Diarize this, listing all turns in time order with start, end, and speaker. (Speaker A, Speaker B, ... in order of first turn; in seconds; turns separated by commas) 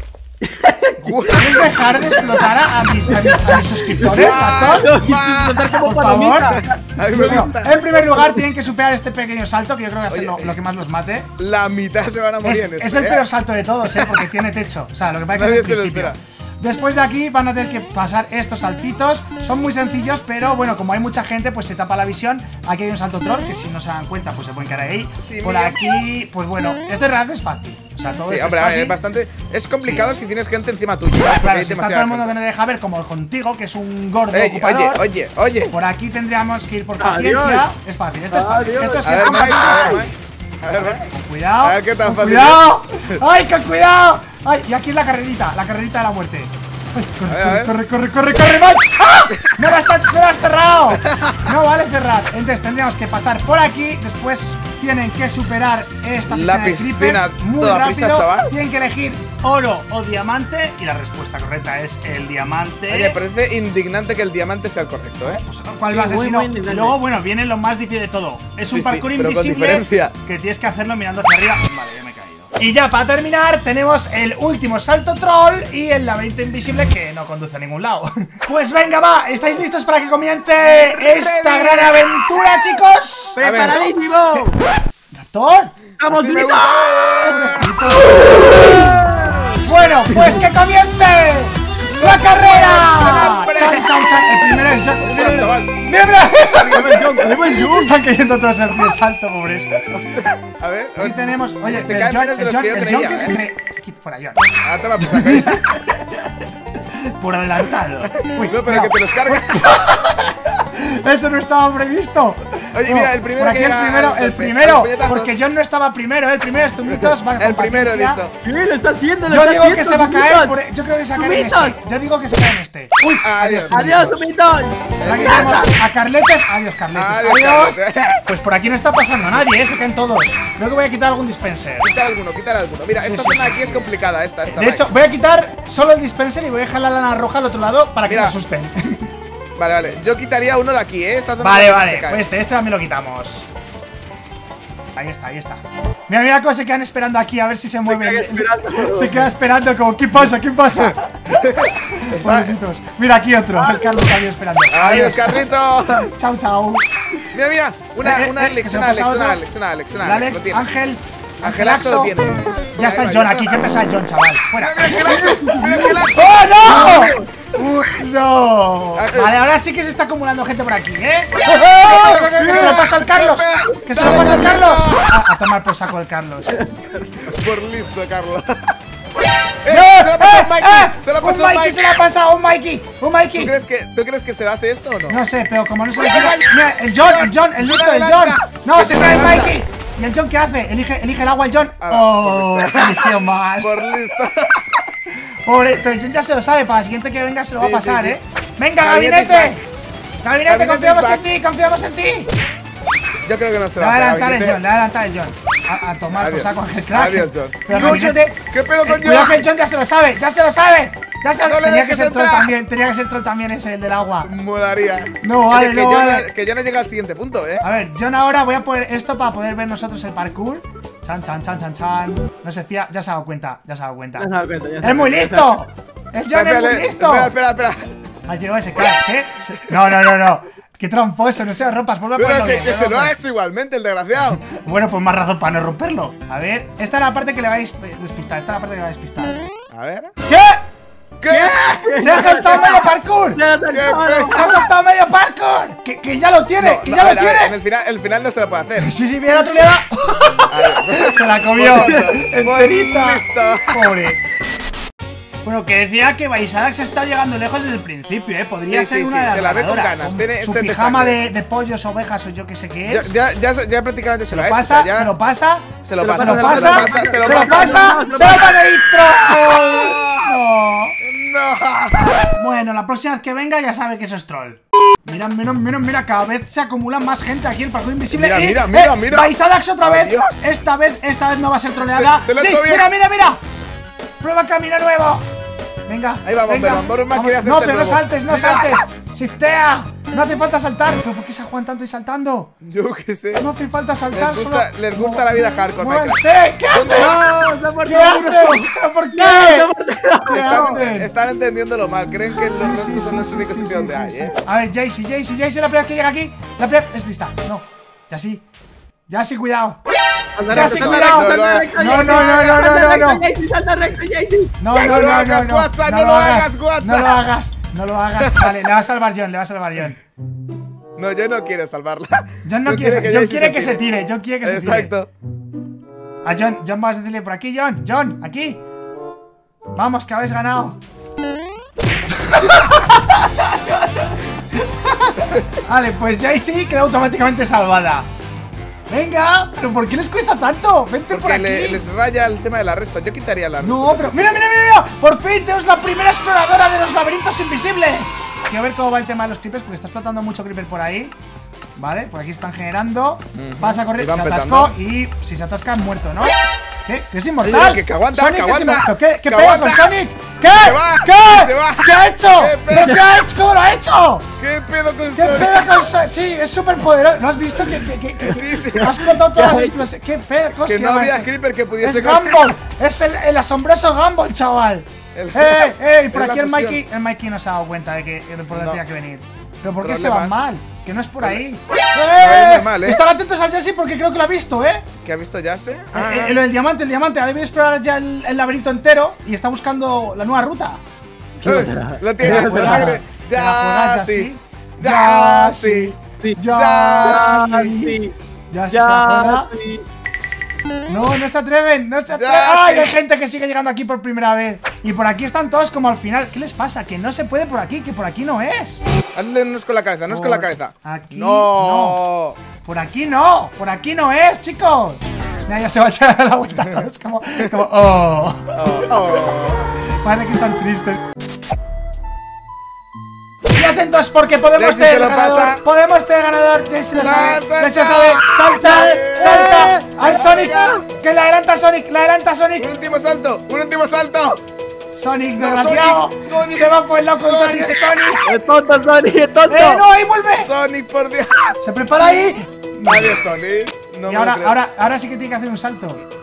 Speaker A: 0.4-1.1, Speaker B: 1.0-1.8, Speaker C: 1.4-4.9, Speaker A: 2.0-6.7, Speaker B: 4.1-5.8, Speaker C: 5.7-11.3, Speaker B: 6.4-7.8, Speaker A: 8.1-8.4, Speaker B: 10.1-10.6, Speaker B: 11.4-13.2, Speaker C: 12.4-29.0, Speaker B: 13.9-14.3, Speaker B: 15.3-16.2, Speaker B: 25.3-25.9, Speaker B: 28.2-32.3, Speaker C: 29.8-30.1, Speaker C: 31.4-35.0, Speaker B: 34.3-35.7, Speaker C: 35.7-40.1, Speaker A: 37.0-37.7, Speaker A: 38.3-40.1, Speaker B: 39.0-41.1, Speaker C: 40.7-63.2, Speaker B: 41.6-43.2, Speaker B: 47.3-47.7, Speaker B: 49.4-49.7, Speaker B: 51.0-51.5, Speaker B: 56.3-58.5, Speaker B: 62.9-65.4, Speaker C: 65.2-83.4, Speaker A: 65.9-67.0, Speaker B: 68.7-70.2, Speaker B: 80.6-82.3, Speaker A: 83.3-84.6, Speaker B: 83.4-83.8, Speaker C: 85.1-85.8, Speaker A: 86.0-87.4, Speaker B: 86.0-89.2, Speaker C: 87.2-88.9, Speaker A: 88.7-89.0, Speaker C: 89.6-99.9, Speaker A: 90.1-90.4, Speaker B: 91.9-97.2, Speaker A: 96.7-98.0, Speaker B: 99.9-103.4, Speaker C: 101.0-106.3, Speaker B: 104.6-105.7, Speaker C: 106.9-118.2, Speaker B: 108.1-109.8, Speaker B: 112.7-115.3, Speaker B: 116.9-118.3, Speaker A: 118.4-120.6, Speaker C: 119.3-124.3, Speaker A: 121.2-121.8, Speaker B: 123.2-124.2, Speaker A: 123.7-125.7, Speaker B: 125.0-125.7, Speaker C: 125.0-131.9, Speaker B: 126.9-128.2, Speaker B: 131.8-134.9, Speaker C: 132.9-133.9, Speaker C: 134.5-139.1, Speaker B: 138.1-138.4, Speaker B: 139.6-142.3, Speaker C: 141.4-143.5, Speaker C: 144.9-156.8, Speaker A: 147.9-149.3, Speaker B: 150.9-152.6, Speaker A: 153.6-154.1, Speaker B: 154.7-156.1, Speaker B: 157.3-160.7, Speaker C: 158.0-159.4, Speaker C: 160.0-162.2, Speaker B: 161.4-163.6, Speaker C: 162.8-167.2, Speaker B: 164.6-168.1, Speaker A: 165.1-166.1, Speaker A: 166.6-167.3, Speaker C: 167.9-176.6, Speaker B: 169.0-169.3, Speaker B: 171.8-175.1, Speaker A: 176.5-176.9, Speaker B: 177.2-178.8, Speaker B: 179.6-182.0, Speaker C: 179.7-183.5, Speaker B: 183.3-185.2, Speaker C: 185.1-193.8, Speaker B: 186.0-189.6, Speaker B: 191.8-194.9, Speaker C: 195.4-199.6, Speaker B: 197.6-198.2, Speaker B: 198.8-199.6, Speaker C: 200.2-202.3, Speaker B: 200.5-201.2, Speaker B: 203.2-204.6, Speaker C: 203.8-214.3, Speaker B: 206.2-209.4, Speaker A: 207.7-208.1, Speaker B: 211.4-212.5, Speaker B: 214.2-217.7, Speaker C: 215.2-216.3, Speaker C: 217.6-224.3, Speaker A: 224.2-225.6, Speaker C: 224.8-227.3, Speaker B: 226.3-227.9, Speaker C: 228.3-233.2, Speaker B: 232.2-234.4, Speaker C: 234.2-239.4, Speaker B: 239.7-240.1, Speaker C: 240.3-240.6, Speaker B: 241.2-241.9, Speaker A: 241.3-244.6, Speaker C: 242.0-243.4, Speaker B: 243.7-244.5, Speaker C: 244.3-247.6, Speaker B: 246.6-248.9, Speaker C: 248.8-254.2, Speaker B: 250.5-254.1, Speaker A: 251.8-252.1, Speaker C: 255.4-263.1, Speaker B: 258.6-261.2, Speaker B: 262.9-265.1, Speaker C: 264.3-271.0, Speaker B: 265.8-268.0, Speaker A: 266.0-268.6, Speaker B: 269.3-270.4, Speaker B: 271.0-272.2, Speaker C: 272.3-283.4, Speaker B: 278.1-280.4, Speaker B: 281.8-282.9, Speaker C: 284.2-285.2, Speaker C: 285.9-292.5, Speaker B: 286.2-288.8, Speaker B: 292.6-293.5, Speaker C: 293.4-297.1, Speaker B: 294.1-297.2, Speaker A: 296.9-300.7, Speaker C: 297.8-299.7, Speaker C: 300.3-301.1, Speaker B: 300.3-304.4, Speaker C: 302.4-308.4, Speaker C: 309.1-309.8, Speaker A: 310.4-314.6, Speaker B: 310.5-312.7, Speaker C: 310.5-313.2, Speaker C: 314.6-320.0, Speaker B: 314.8-317.2, Speaker B: 318.2-318.6, Speaker B: 321.0-323.9, Speaker C: 322.4-324.9, Speaker B: 324.4-325.1, Speaker C: 326.2-328.6, Speaker C: 329.8-330.8, Speaker C: 332.1-338.1, Speaker C: 338.9-341.8, Speaker B: 341.1-344.4, Speaker C: 343.6-351.1, Speaker C: 351.8-364.3, Speaker B: 353.4-354.8, Speaker B: 357.4-359.9, Speaker B: 360.5-363.2, Speaker B: 364.4-365.9, Speaker C: 365.1-371.3, Speaker B: 368.2-369.1, Speaker A: 368.7-369.9, Speaker B: 370.6-372.5, Speaker C: 371.8-384.9, Speaker B: 375.1-376.8, Speaker B: 378.5-378.8, Speaker B: 379.8-380.4, Speaker B: 382.2-383.0, Speaker B: 385.0-386.4, Speaker C: 385.9-390.8, Speaker A: 391.4-393.0, Speaker B: 391.4-395.9, Speaker C: 392.2-398.0, Speaker B: 396.5-397.6, Speaker A: 397.0-398.1, Speaker C: 398.5-399.5, Speaker A: 398.7-399.9, Speaker C: 400.9-408.8, Speaker B: 402.1-403.0, Speaker B: 409.1-412.4, Speaker C: 410.1-412.0, Speaker C: 412.6-418.9, Speaker B: 416.5-416.9, Speaker B: 418.6-419.7, Speaker C: 420.0-421.0, Speaker C: 423.5-432.7, Speaker B: 424.6-425.6, Speaker B: 427.0-430.9, Speaker A: 429.5-429.8, Speaker B: 432.6-434.4, Speaker C: 434.9-438.3, Speaker B: 435.4-438.3, Speaker A: 438.3-439.8, Speaker C: 439.5-440.5, Speaker B: 440.4-441.6, Speaker C: 441.6-443.2, Speaker B: 442.9-444.6, Speaker C: 444.1-446.0